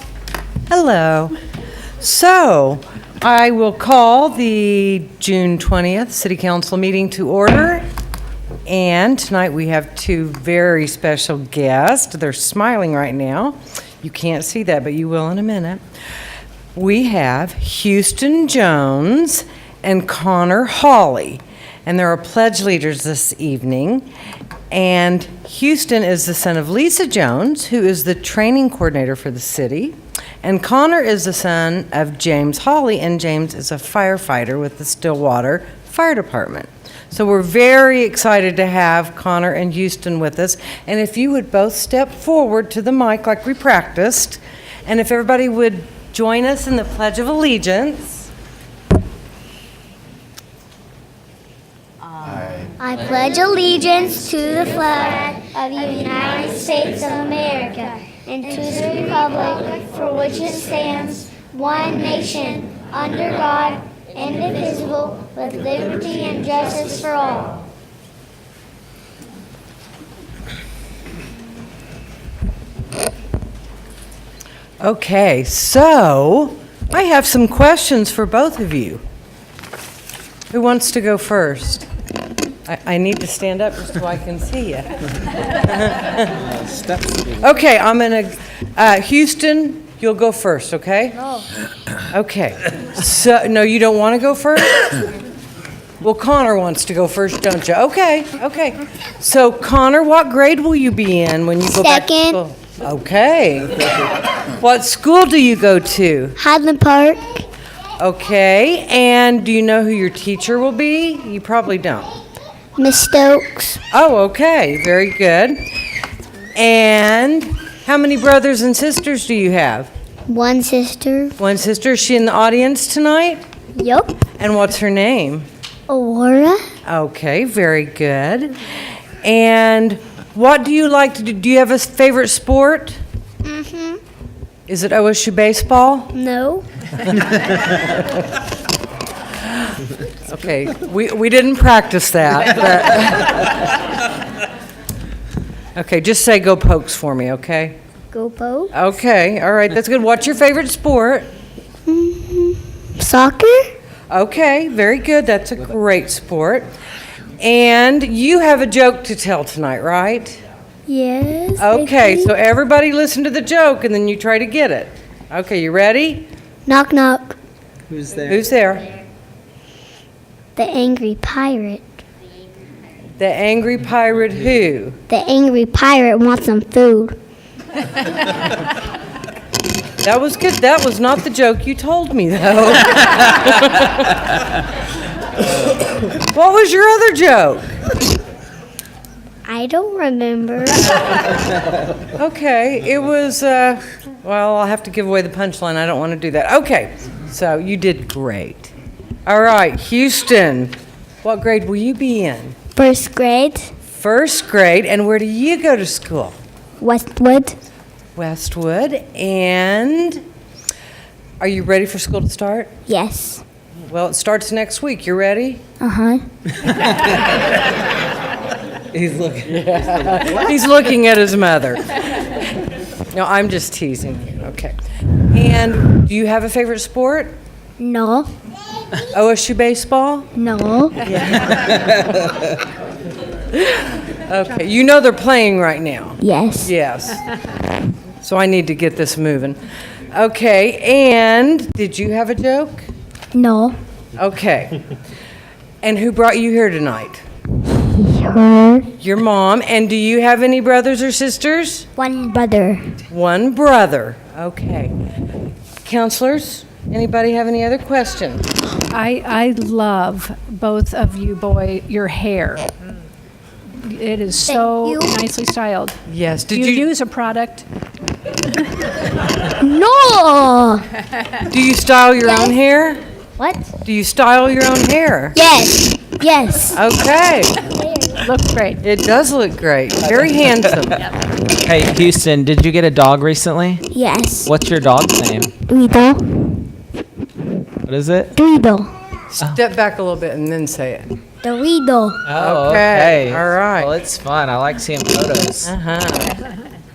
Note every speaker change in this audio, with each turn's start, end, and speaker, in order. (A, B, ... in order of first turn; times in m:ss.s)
0:00.7-0:01.4 A
0:02.0-0:07.8 A
0:08.7-0:15.8 A
0:16.8-0:24.1 A
0:24.7-0:48.3 A
0:52.8-1:07.6 B
1:14.8-1:19.0 A
1:20.5-1:21.9 A
1:22.7-1:25.0 A
1:25.6-1:26.4 A
1:27.3-1:31.2 A
1:32.1-1:34.9 A
1:36.0-1:43.8 A
1:41.6-1:42.4 B
1:44.6-1:46.4 A
1:46.4-1:47.4 B
1:48.0-1:52.1 A
1:52.8-1:53.8 B
1:53.9-1:55.6 A
1:56.6-1:59.9 A
2:00.3-2:01.4 B
2:01.4-2:03.4 A
2:03.8-2:04.2 B
2:04.4-2:05.5 A
2:05.9-2:06.7 B
2:06.8-2:08.5 A
2:09.2-2:13.0 A
2:13.4-2:14.0 B
2:14.7-2:16.1 A
2:16.1-2:16.7 B
2:20.3-2:23.6 A
2:25.8-2:27.8 A
2:28.1-2:28.7 B
2:28.7-2:31.3 A
2:31.9-2:33.7 B
2:34.1-2:36.7 A
2:37.4-2:40.4 A
2:40.9-2:42.3 B
2:41.6-2:46.3 A
2:46.7-2:47.4 B
2:47.9-2:48.3 C
2:48.2-2:48.9 A
2:50.6-2:51.9 B
2:53.2-2:55.0 A
2:55.1-2:57.2 B
3:00.0-3:04.4 A
3:06.1-3:07.8 A
3:09.5-3:10.9 B
3:12.2-3:18.7 A
3:19.3-3:22.6 A
3:22.8-3:23.7 B
3:23.9-3:26.4 A
3:26.8-3:27.6 B
3:28.2-3:30.2 A
3:31.4-3:32.7 A
3:32.9-3:33.4 B
3:33.9-3:35.6 A
3:35.8-3:36.2 B
3:38.9-3:39.3 C
3:39.4-3:42.0 A
3:43.1-3:44.8 A
3:45.3-3:47.4 A
3:47.8-3:48.3 B
3:49.1-3:50.3 A
3:50.4-3:51.0 B
3:51.1-3:51.8 A
3:54.3-3:57.2 A
3:56.2-3:56.7 B
3:58.2-3:59.6 A
4:00.1-4:02.9 A
4:03.3-4:03.8 B
4:04.2-4:04.8 A
4:05.8-4:07.2 A
4:07.9-4:08.9 B
4:09.0-4:11.9 A
4:12.0-4:12.9 B
4:13.1-4:14.9 A
4:15.8-4:18.5 A
4:18.9-4:22.7 D
4:23.8-4:26.0 D
4:24.4-4:25.1 B
4:26.1-4:26.9 A
4:26.5-4:27.6 D
4:29.6-4:30.8 B
4:31.4-4:33.0 A
4:32.2-4:32.5 B
4:33.4-4:33.7 B
4:33.8-4:35.4 A
4:35.4-4:36.8 B
4:36.7-4:37.6 A
4:37.6-4:38.2 B
4:38.2-4:38.8 D
4:38.8-4:41.0 A
4:41.6-4:43.8 C
4:43.9-4:44.5 B
4:44.5-4:45.5 C
4:45.7-4:46.5 B
4:47.9-4:48.3 C
4:48.4-4:48.9 B
4:49.3-4:51.1 A
4:51.4-4:52.2 B
4:52.3-4:55.7 C
4:52.4-4:53.9 A
4:55.6-4:56.3 A